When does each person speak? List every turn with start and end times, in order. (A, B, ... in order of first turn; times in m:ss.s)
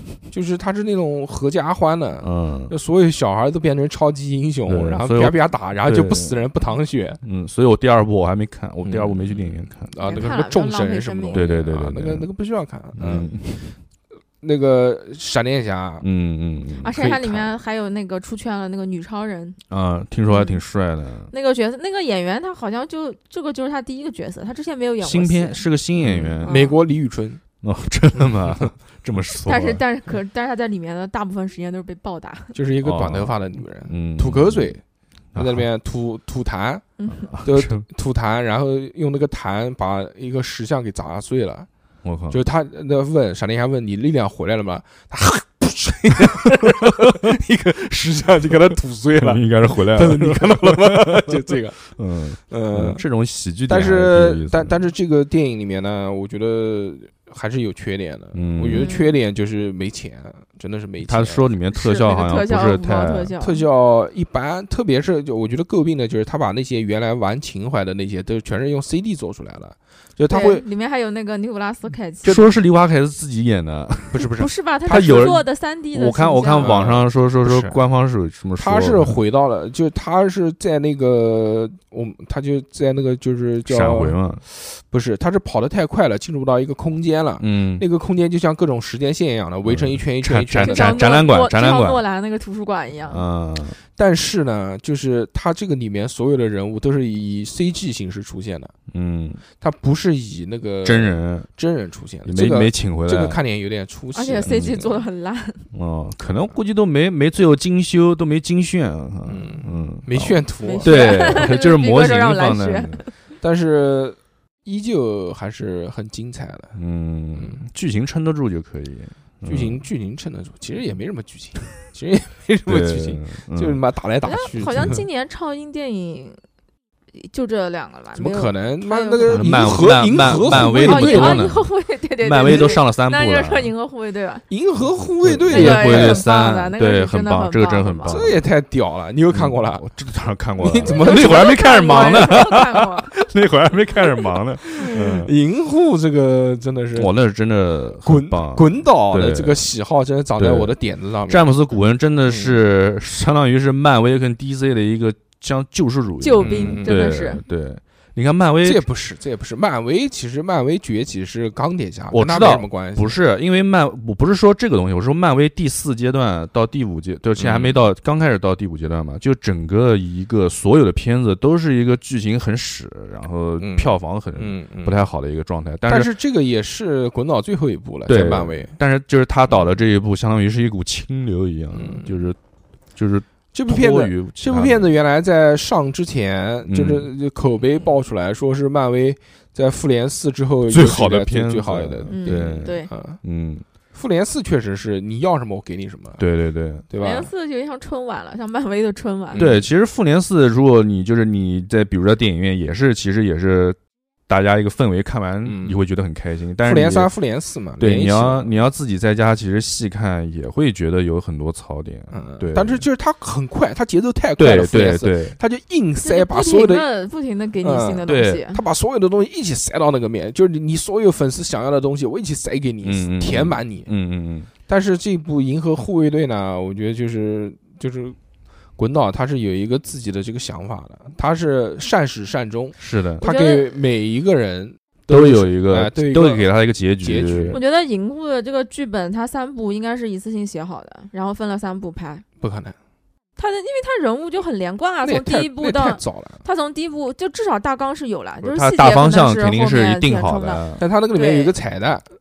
0:00.3-0:07.2 A
0:02.2-0:02.7 B
0:04.7-0:06.4 B
0:07.2-0:09.9 B
0:08.8-0:13.3 A
0:10.0-0:11.4 C
0:11.3-0:12.2 B
0:13.0-0:13.7 B
0:14.4-0:16.0 A
0:16.0-0:17.0 B
0:16.8-0:19.6 C
0:16.9-0:17.5 A
0:19.7-0:21.3 B
0:20.3-0:20.6 C
0:21.3-0:25.6 C
0:25.0-0:26.5 B
0:26.0-0:27.4 A
0:26.4-0:26.8 C
0:27.6-0:29.8 B
0:29.4-0:32.6 C
0:32.5-0:34.8 A
0:32.8-0:33.4 B
0:33.9-0:34.7 B
0:35.3-0:35.6 B
0:35.4-0:36.8 A
0:37.0-0:37.3 C
0:37.1-0:37.8 B
0:37.4-0:41.7 A
0:42.0-0:42.4 B
0:42.3-0:51.8 A
0:49.2-0:54.8 B
0:52.5-0:53.0 A
0:53.7-1:01.4 A
0:58.3-0:58.9 B
0:58.7-0:59.1 C
1:01.0-1:03.3 B
1:01.7-1:03.6 C
1:03.4-1:10.6 A
1:10.3-1:12.4 C
1:12.2-1:14.2 B
1:14.1-1:15.4 A
1:14.4-1:16.9 C
1:14.9-1:19.2 B
1:16.6-1:17.8 A
1:18.6-1:31.0 A
1:23.6-1:24.4 B
1:27.4-1:27.8 B
1:29.6-1:32.0 B
1:30.6-1:33.2 C
1:33.1-1:33.8 B
1:34.0-1:38.7 A
1:38.9-1:39.4 B
1:39.6-1:44.9 A
1:40.8-1:41.5 B
1:42.2-1:43.4 B
1:44.1-1:45.6 C
1:44.5-1:44.8 B
1:45.7-1:53.0 B
1:49.2-1:51.4 A
1:50.6-1:53.1 C
1:53.4-1:56.7 A
1:56.7-1:59.8 B
1:57.3-1:57.6 A
1:59.4-2:05.0 A
2:02.7-2:03.8 B
2:04.2-2:06.4 C
2:07.1-2:14.4 C
2:08.1-2:11.5 A
2:09.2-2:11.7 B
2:12.2-2:13.7 B
2:12.4-2:12.8 A
2:14.5-2:16.2 A
2:15.2-2:18.4 B
2:15.5-2:18.2 C
2:18.1-2:19.8 A
2:19.3-2:25.3 B
2:20.6-2:22.4 A
2:20.9-2:23.1 C
2:24.8-2:27.1 A
2:26.9-2:29.7 B
2:28.0-2:31.5 A
2:30.4-2:30.7 B
2:31.3-2:38.8 B
2:32.2-2:32.6 A
2:36.2-2:37.4 C
2:36.4-2:37.0 A
2:38.6-2:43.2 A
2:42.1-2:56.1 B
2:47.4-2:47.8 A
2:53.6-2:55.0 A
2:55.9-2:58.7 A
2:58.1-3:02.4 B
3:01.7-3:02.1 A
3:03.0-3:04.8 B
3:03.5-3:13.2 A
3:06.7-3:07.1 B
3:10.7-3:13.6 B
3:12.1-3:12.9 C
3:13.9-3:16.2 A
3:16.2-3:16.8 B
3:16.9-3:17.3 A
3:17.0-3:19.4 C
3:19.3-3:19.7 A
3:19.3-3:23.8 B
3:24.3-3:27.1 B
3:25.4-3:25.8 A
3:26.6-3:28.5 A
3:27.8-3:32.8 B
3:32.1-3:36.8 A
3:34.4-3:35.4 B
3:36.0-3:38.6 C
3:37.6-3:43.9 A
3:38.1-3:38.4 B
3:42.8-3:44.5 B
3:44.7-3:48.2 A
3:48.8-3:56.5 A
3:52.8-3:53.2 B
3:53.2-3:53.7 C
3:55.1-3:57.6 B
3:57.0-3:57.6 A
3:57.5-4:02.2 C
4:02.4-4:02.8 A
4:03.4-4:11.5 C
4:05.0-4:06.4 A
4:08.4-4:10.8 B
4:10.8-4:12.1 A